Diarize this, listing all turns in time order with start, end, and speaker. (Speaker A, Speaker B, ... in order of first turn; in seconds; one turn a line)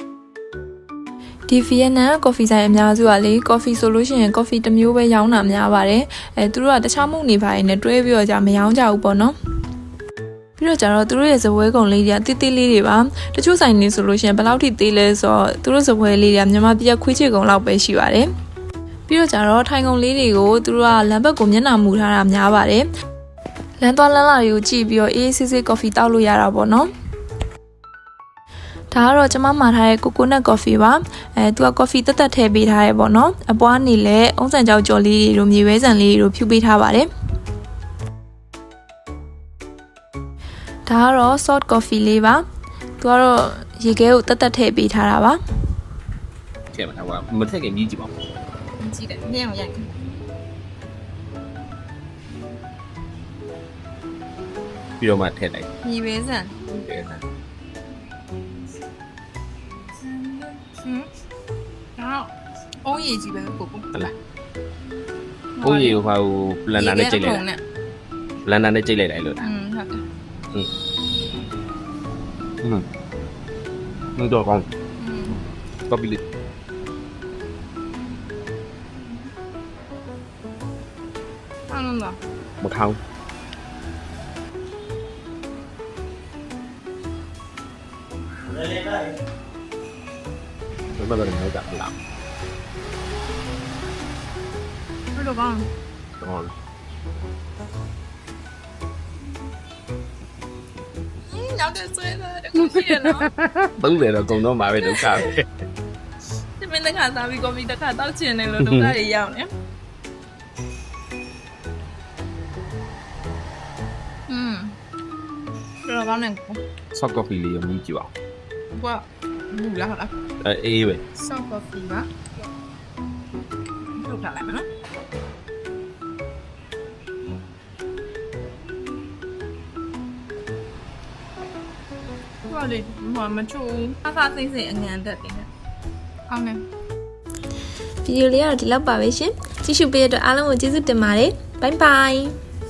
Speaker A: 1.5-9.3
Speaker A: 10.6-18.3
Speaker A: 19.1-22.9
Speaker A: 23.8-26.9
Speaker A: 28.9-37.1
Speaker A: 40.9-42.5
Speaker A: 43.0-45.4
Speaker B: 46.7-48.1
Speaker C: 48.8-49.9
Speaker B: 55.0-55.7
Speaker C: 55.8-56.6
Speaker B: 56.7-57.2
Speaker C: 60.0-61.1
Speaker C: 62.0-62.3
Speaker C: 62.9-63.9
Speaker C: 65.6-66.0
Speaker B: 65.6-67.4
Speaker C: 66.7-67.6
Speaker B: 68.4-69.5
Speaker C: 69.4-70.0
Speaker B: 74.2-74.7
Speaker C: 75.0-75.4
Speaker B: 75.9-76.2
Speaker C: 81.7-82.2
Speaker B: 82.6-83.0
Speaker B: 91.0-91.9
Speaker C: 95.2-95.7
Speaker B: 96.2-96.5
Speaker C: 101.2-103.3
Speaker B: 102.6-105.5
Speaker C: 106.6-109.5
Speaker B: 108.6-109.0
Speaker C: 114.3-114.8
Speaker C: 115.9-116.6
Speaker B: 116.9-118.1
Speaker C: 118.7-120.1
Speaker B: 120.4-121.0
Speaker C: 121.2-122.1
Speaker C: 123.9-124.7
Speaker C: 132.5-135.5
Speaker C: 136.3-136.6
Speaker A: 138.0-142.3